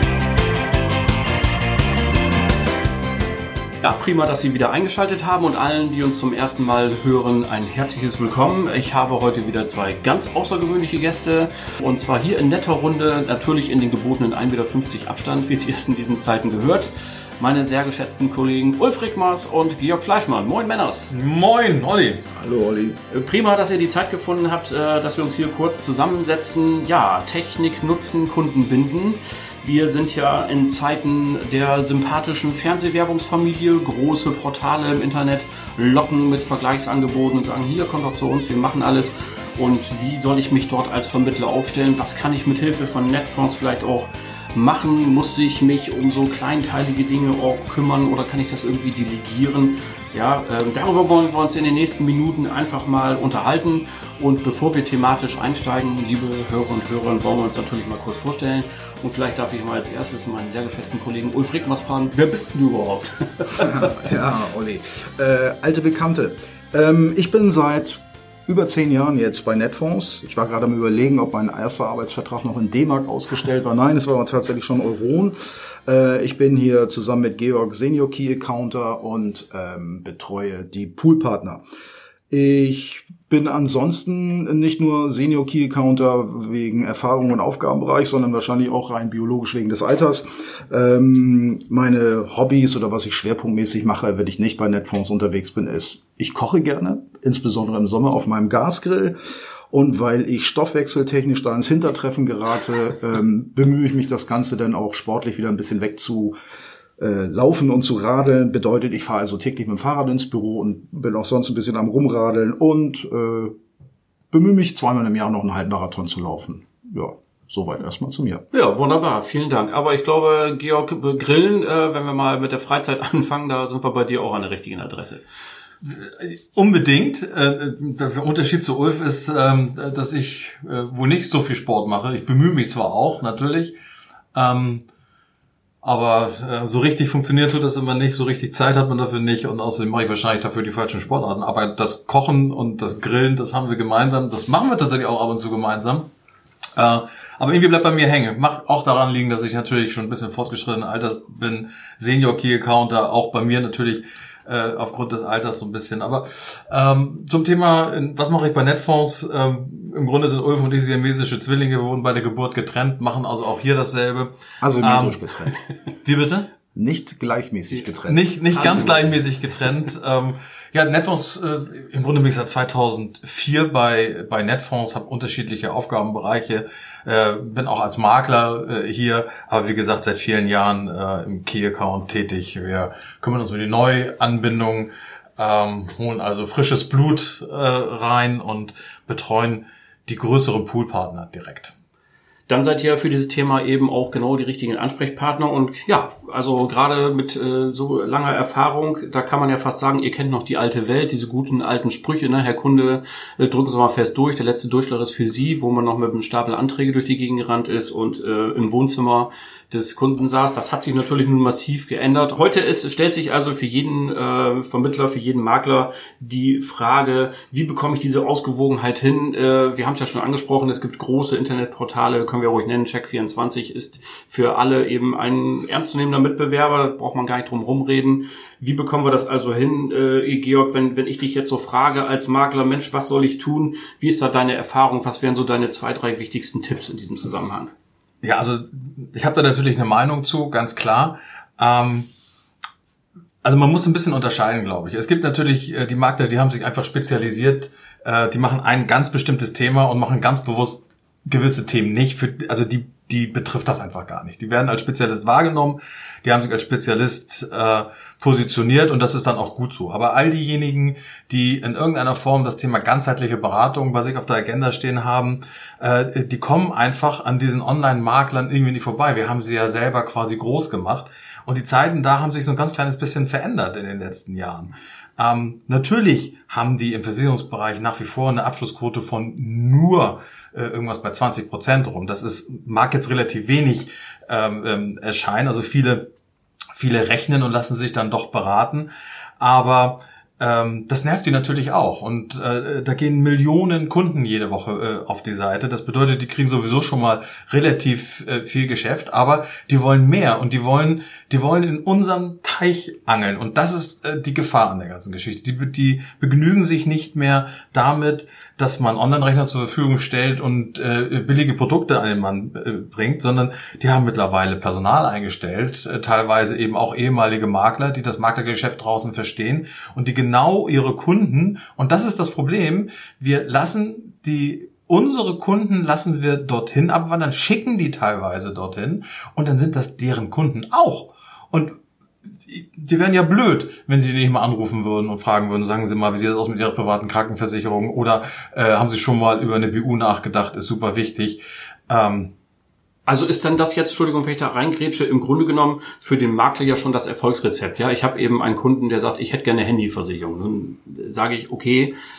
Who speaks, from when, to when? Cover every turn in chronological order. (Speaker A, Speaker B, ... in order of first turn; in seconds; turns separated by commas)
Speaker A: 3.8-21.1, Speaker B: 21.1-22.2, Speaker C: 22.3-23.0, Speaker A: 23.1-63.9, Speaker C: 63.6-81.6, Speaker C: 82.3-99.2, Speaker C: 99.7-106.3, Speaker C: 107.0-113.5, Speaker C: 114.3-118.4, Speaker A: 118.5-125.2, Speaker B: 125.8-133.7, Speaker B: 134.3-134.8, Speaker B: 135.8-146.1, Speaker B: 146.8-165.5, Speaker C: 164.6-165.5, Speaker B: 166.0-166.5, Speaker C: 166.7-169.1, Speaker B: 168.1-191.7, Speaker A: 168.5-169.1, Speaker A: 192.5-237.7, Speaker B: 238.2-242.1, Speaker B: 243.4-286.1, Speaker B: 286.8-288.9, Speaker B: 289.4-331.8, Speaker B: 332.5-342.3, Speaker A: 343.1-351.9